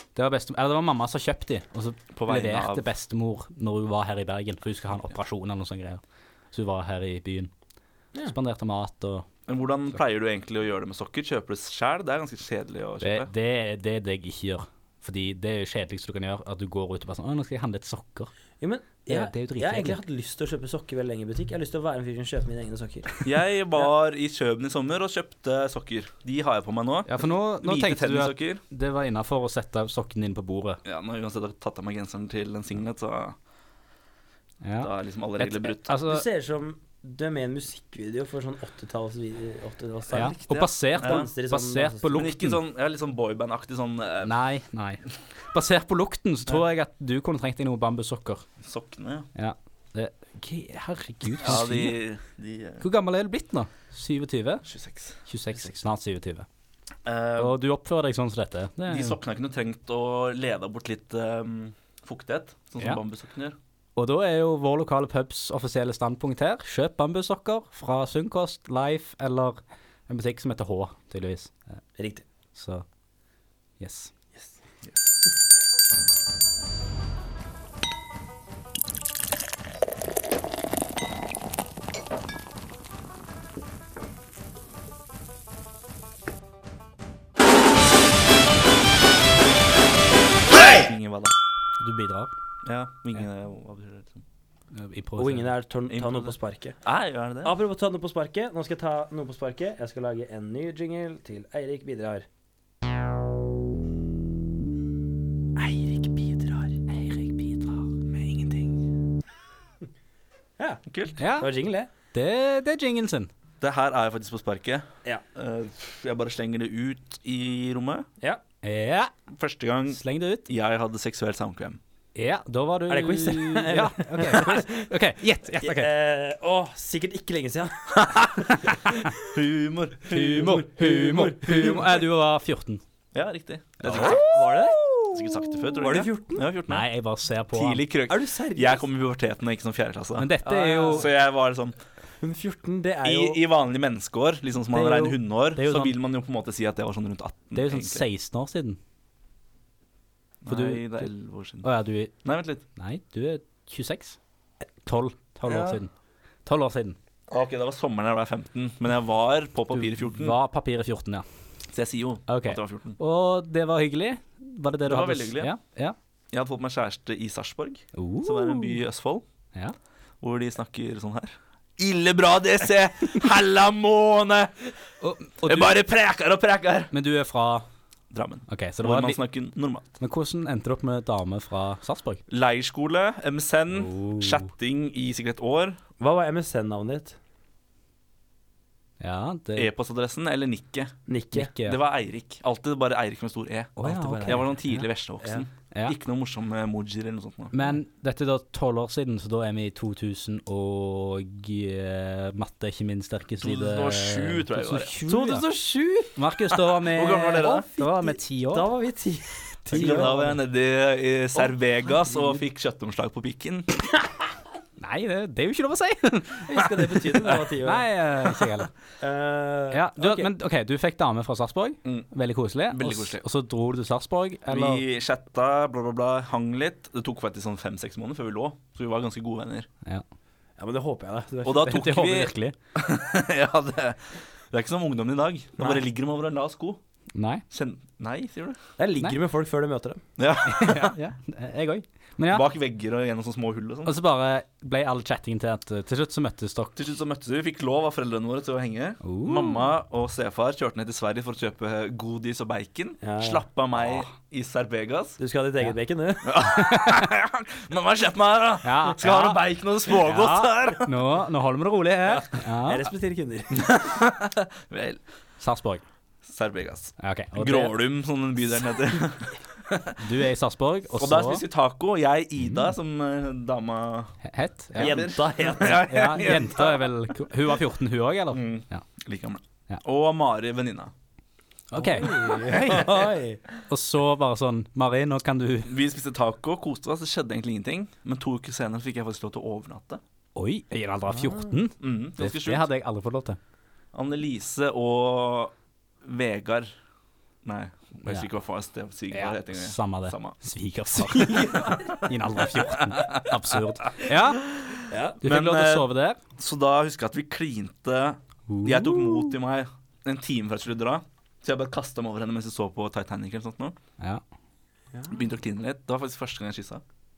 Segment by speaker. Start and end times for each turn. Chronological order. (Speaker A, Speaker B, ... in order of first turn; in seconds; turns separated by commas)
Speaker A: 0.1-7.5, Speaker B: 2.1-2.9, Speaker A: 8.2-9.3, Speaker B: 9.5-13.3, Speaker A: 13.0-18.3, Speaker C: 18.6-23.2, Speaker A: 19.1-20.0, Speaker B: 23.2-28.6, Speaker A: 27.1-30.8, Speaker B: 30.8-33.4, Speaker A: 34.6-36.2, Speaker B: 34.8-35.9, Speaker C: 36.1-40.4, Speaker B: 40.1-41.3, Speaker A: 40.1-42.6, Speaker C: 40.9-42.3, Speaker B: 42.1-44.4, Speaker A: 44.2-48.5, Speaker B: 48.6-49.3, Speaker A: 49.3-52.0, Speaker B: 51.4-52.9, Speaker A: 52.8-54.6, Speaker B: 54.6-55.2, Speaker A: 55.2-56.5, Speaker B: 57.0-57.5, Speaker A: 57.4-59.2, Speaker B: 58.9-63.6, Speaker A: 64.0-71.5, Speaker C: 72.0-72.2, Speaker A: 72.5-72.8, Speaker A: 73.8-74.1, Speaker B: 74.8-75.2, Speaker B: 90.5-91.3, Speaker A: 91.8-92.3, Speaker B: 92.6-94.2, Speaker A: 94.7-95.5, Speaker C: 95.2-96.8, Speaker B: 95.9-97.5, Speaker C: 97.4-102.2, Speaker C: 105.5-106.8, Speaker A: 106.9-107.9, Speaker C: 108.1-108.8, Speaker B: 110.9-111.2, Speaker A: 111.2-111.5, Speaker C: 111.4-111.9, Speaker A: 112.1-113.3, Speaker B: 113.6-118.1, Speaker A: 118.6-119.1, Speaker B: 119.3-121.8, Speaker A: 119.9-120.5, Speaker A: 122.1-125.9, Speaker C: 122.9-124.9, Speaker C: 125.6-129.1, Speaker A: 128.4-128.9, Speaker B: 129.2-130.5, Speaker A: 130.1-132.8, Speaker C: 130.2-132.0, Speaker B: 133.1-134.2, Speaker A: 133.8-135.2, Speaker C: 133.9-134.9, Speaker B: 135.1-136.9, Speaker C: 135.8-136.5, Speaker A: 136.7-137.8, Speaker B: 137.5-140.3, Speaker C: 138.1-138.9, Speaker A: 140.2-141.1, Speaker C: 140.4-141.1, Speaker B: 140.9-141.8, Speaker C: 142.2-143.4, Speaker B: 143.0-148.1, Speaker A: 144.7-145.9, Speaker A: 147.5-148.8, Speaker B: 150.4-151.7, Speaker A: 150.5-151.1, Speaker A: 151.6-152.1, Speaker B: 152.2-152.6, Speaker A: 152.8-154.2, Speaker A: 154.8-155.9, Speaker B: 155.5-155.8, Speaker A: 156.4-157.0, Speaker B: 157.3-160.3, Speaker A: 159.7-161.2, Speaker B: 161.7-163.0, Speaker A: 162.3-165.9, Speaker B: 164.8-165.5, Speaker B: 166.3-169.2, Speaker A: 167.9-168.8, Speaker B: 170.2-174.7, Speaker A: 175.0-175.8, Speaker B: 175.4-176.9, Speaker A: 176.9-177.7, Speaker B: 178.1-179.9, Speaker A: 178.5-179.2, Speaker A: 180.0-182.2, Speaker B: 182.3-185.8, Speaker A: 183.7-184.5, Speaker C: 186.0-187.2, Speaker A: 189.0-189.7, Speaker B: 189.6-190.9, Speaker C: 191.1-191.5, Speaker A: 191.3-191.8, Speaker B: 191.6-197.7, Speaker A: 193.8-194.8, Speaker C: 193.8-194.5, Speaker A: 197.5-205.5, Speaker B: 203.4-204.9, Speaker C: 205.1-206.2, Speaker A: 206.1-208.7, Speaker B: 206.8-207.7, Speaker C: 207.4-210.4, Speaker B: 209.7-213.9, Speaker A: 209.7-210.2, Speaker A: 214.8-218.7, Speaker C: 216.4-217.9, Speaker C: 219.0-220.3, Speaker A: 219.7-224.8, Speaker B: 222.7-223.2, Speaker B: 224.5-229.7, Speaker C: 230.6-231.7, Speaker B: 231.4-236.8, Speaker A: 231.6-232.6, Speaker A: 237.1-237.4, Speaker B: 237.5-238.6, Speaker C: 238.8-240.0, Speaker B: 240.2-240.9, Speaker A: 240.4-242.5, Speaker B: 242.3-243.9, Speaker A: 243.8-246.8, Speaker B: 246.8-255.2, Speaker A: 249.0-249.7, Speaker C: 253.0-253.4, Speaker C: 255.2-256.4, Speaker B: 256.2-261.0, Speaker A: 256.4-257.0, Speaker A: 258.6-262.9, Speaker C: 262.6-263.7, Speaker B: 263.5-265.0, Speaker A: 265.4-265.8, Speaker B: 266.2-270.0, Speaker A: 267.0-267.7, Speaker A: 270.0-271.4, Speaker B: 270.9-274.1, Speaker A: 274.2-275.1, Speaker B: 274.7-276.9, Speaker C: 274.8-276.3, Speaker A: 275.6-278.8, Speaker B: 278.3-280.9, Speaker A: 281.7-283.0, Speaker C: 281.8-283.4, Speaker B: 282.4-283.0, Speaker A: 283.7-285.7, Speaker B: 285.6-290.0, Speaker A: 290.4-293.4, Speaker C: 291.2-291.5, Speaker B: 291.8-292.7, Speaker B: 293.9-296.7, Speaker B: 297.4-300.4, Speaker A: 299.1-304.5, Speaker B: 301.2-301.9, Speaker C: 301.3-301.9, Speaker B: 302.5-313.8, Speaker C: 304.9-305.2, Speaker A: 305.2-306.2, Speaker A: 308.5-309.4, Speaker B: 315.1-316.8